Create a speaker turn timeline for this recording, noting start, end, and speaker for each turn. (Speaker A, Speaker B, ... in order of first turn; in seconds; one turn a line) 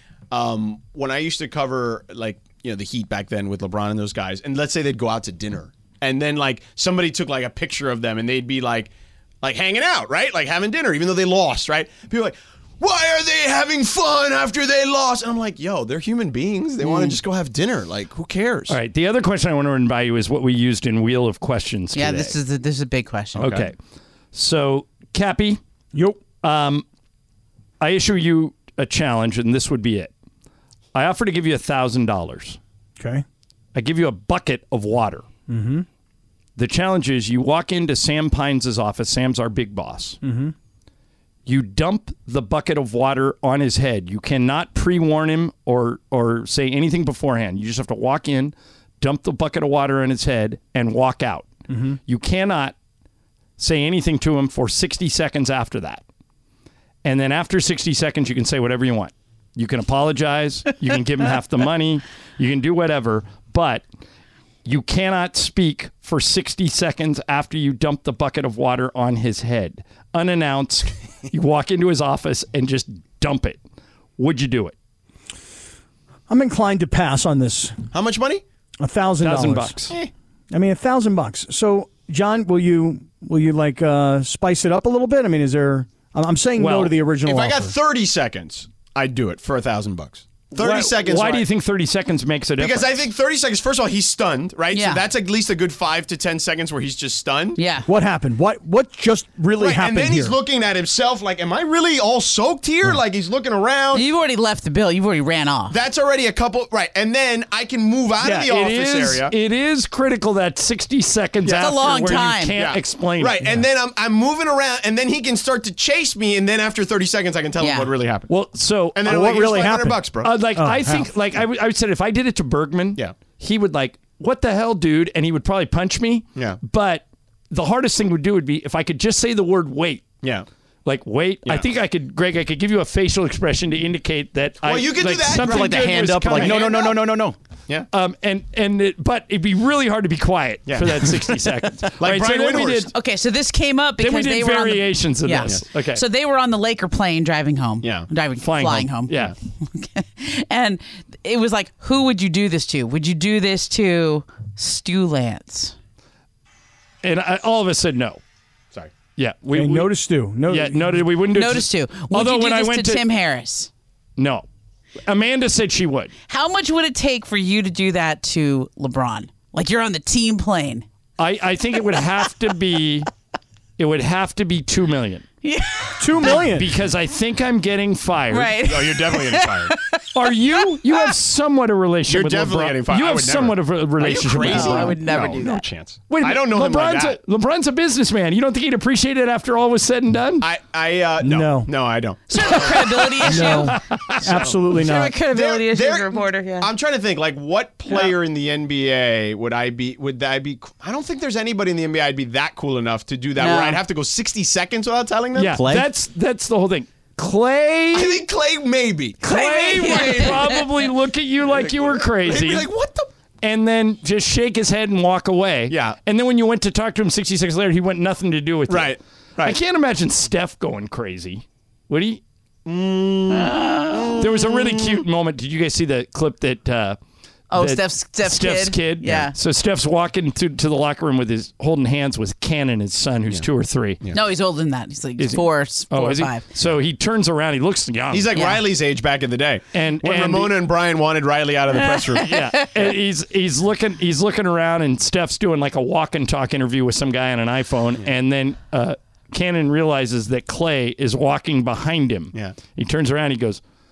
Speaker A: 0.3-8.9
Speaker A: 9.4-18.8
Speaker B: 16.8-17.2
Speaker C: 18.7-22.4
Speaker B: 21.9-23.6
Speaker C: 23.4-23.8
Speaker A: 23.4-23.6
Speaker C: 24.3-25.6
Speaker D: 25.9-26.2
Speaker C: 26.4-26.9
Speaker C: 27.8-30.1
Speaker C: 30.9-32.6
Speaker D: 33.0-33.2
Speaker C: 33.8-35.3
Speaker D: 35.5-35.9
Speaker C: 36.6-40.2
Speaker D: 40.2-40.5
Speaker C: 41.5-51.5
Speaker D: 51.7-52.0
Speaker C: 52.1-52.8
Speaker C: 53.6-56.0
Speaker C: 57.0-63.8
Speaker C: 64.7-73.6
Speaker C: 74.2-74.8
Speaker D: 76.3-77.8
Speaker A: 77.9-78.4
Speaker D: 78.8-79.8
Speaker C: 79.2-79.9
Speaker D: 80.5-87.7
Speaker C: 86.6-87.0
Speaker A: 87.2-91.5
Speaker C: 90.5-93.0
Speaker A: 92.6-97.6
Speaker B: 94.7-95.1
Speaker B: 97.5-97.9
Speaker D: 97.9-100.4
Speaker A: 99.6-104.1
Speaker B: 103.9-105.8
Speaker A: 105.7-109.3
Speaker C: 108.2-113.5
Speaker B: 111.5-112.6
Speaker A: 112.5-118.3
Speaker B: 117.6-117.9
Speaker C: 118.3-119.1
Speaker A: 119.0-120.3
Speaker D: 119.1-121.1
Speaker C: 120.2-130.2
Speaker C: 130.8-136.9
Speaker A: 134.6-137.0
Speaker E: 135.4-137.3
Speaker C: 137.9-142.9
Speaker A: 140.7-141.3
Speaker A: 142.0-142.9
Speaker B: 142.9-155.8
Speaker C: 144.0-146.0
Speaker A: 147.8-148.1
Speaker C: 148.4-149.3
Speaker C: 157.0-158.2
Speaker C: 159.2-159.9
Speaker D: 159.5-161.1
Speaker C: 160.5-163.0
Speaker B: 161.3-163.7
Speaker C: 164.2-164.5
Speaker C: 165.1-166.1
Speaker B: 166.3-170.9
Speaker C: 171.2-173.1
Speaker C: 173.8-175.3
Speaker B: 175.4-176.4
Speaker D: 176.0-176.7
Speaker C: 176.4-178.6
Speaker B: 178.3-181.1
Speaker A: 178.6-179.7
Speaker C: 180.1-185.0
Speaker A: 182.1-187.2
Speaker B: 184.4-185.7
Speaker C: 186.1-190.5
Speaker A: 190.4-192.8
Speaker D: 191.2-191.7
Speaker B: 192.3-193.8
Speaker D: 193.3-195.2
Speaker C: 193.4-194.4
Speaker A: 194.3-205.6
Speaker B: 194.7-196.7
Speaker B: 203.4-203.8
Speaker C: 205.3-208.2
Speaker E: 205.5-205.9
Speaker A: 207.9-210.4
Speaker C: 209.2-212.7
Speaker B: 209.2-210.8
Speaker A: 211.5-213.1
Speaker C: 213.4-222.2
Speaker A: 215.7-216.0
Speaker A: 218.7-219.6
Speaker A: 222.7-225.0
Speaker B: 223.3-224.2
Speaker C: 224.2-227.0
Speaker B: 227.5-229.4
Speaker C: 227.5-234.0
Speaker B: 234.1-236.4
Speaker C: 235.2-238.4
Speaker A: 238.1-242.3
Speaker B: 238.3-238.6
Speaker C: 239.7-240.6
Speaker B: 241.7-242.7
Speaker C: 242.2-253.6